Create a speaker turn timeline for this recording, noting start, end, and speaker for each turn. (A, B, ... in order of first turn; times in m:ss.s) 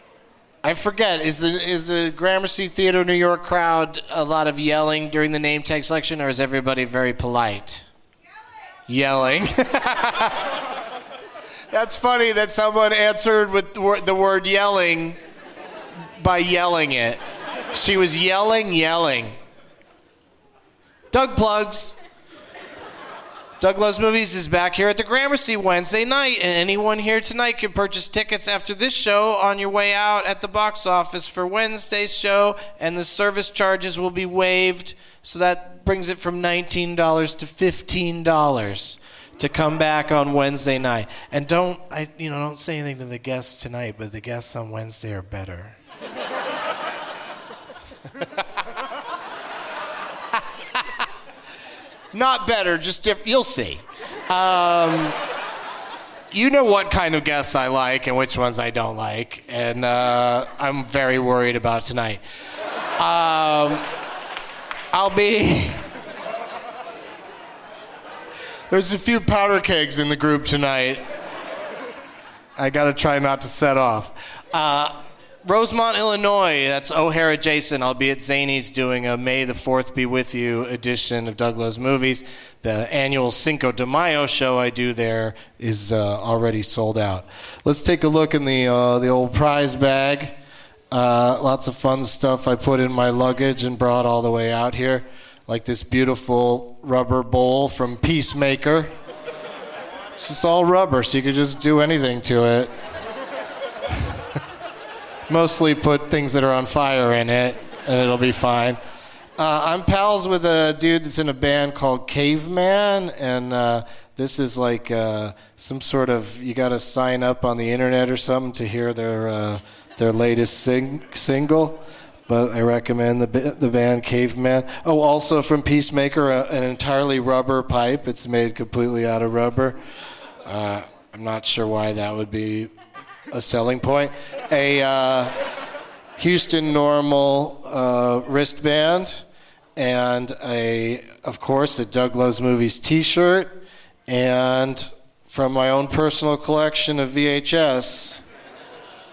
0:00.6-0:07.8 A
0:08.9-0:10.4 A
0:11.7-0:15.2 A
0:16.2-0:17.2 A
0:17.7-0:19.4 A
0:21.1-0:22.0 A
0:23.6-0:45.8 A
0:50.4-0:51.0 A
0:52.1-0:55.2 A
0:56.3-1:02.2 A
1:03.0-1:03.9 A
1:04.9-1:05.8 A
1:08.7-1:11.0 A
1:12.6-1:30.4 A
1:30.9-1:38.9 A
1:40.2-1:42.7 A
1:45.3-1:48.8 A
1:49.4-2:09.8 A
2:10.4-2:12.7 A
2:13.3-2:15.4 A
2:16.2-2:19.2 A
2:19.8-2:28.2 A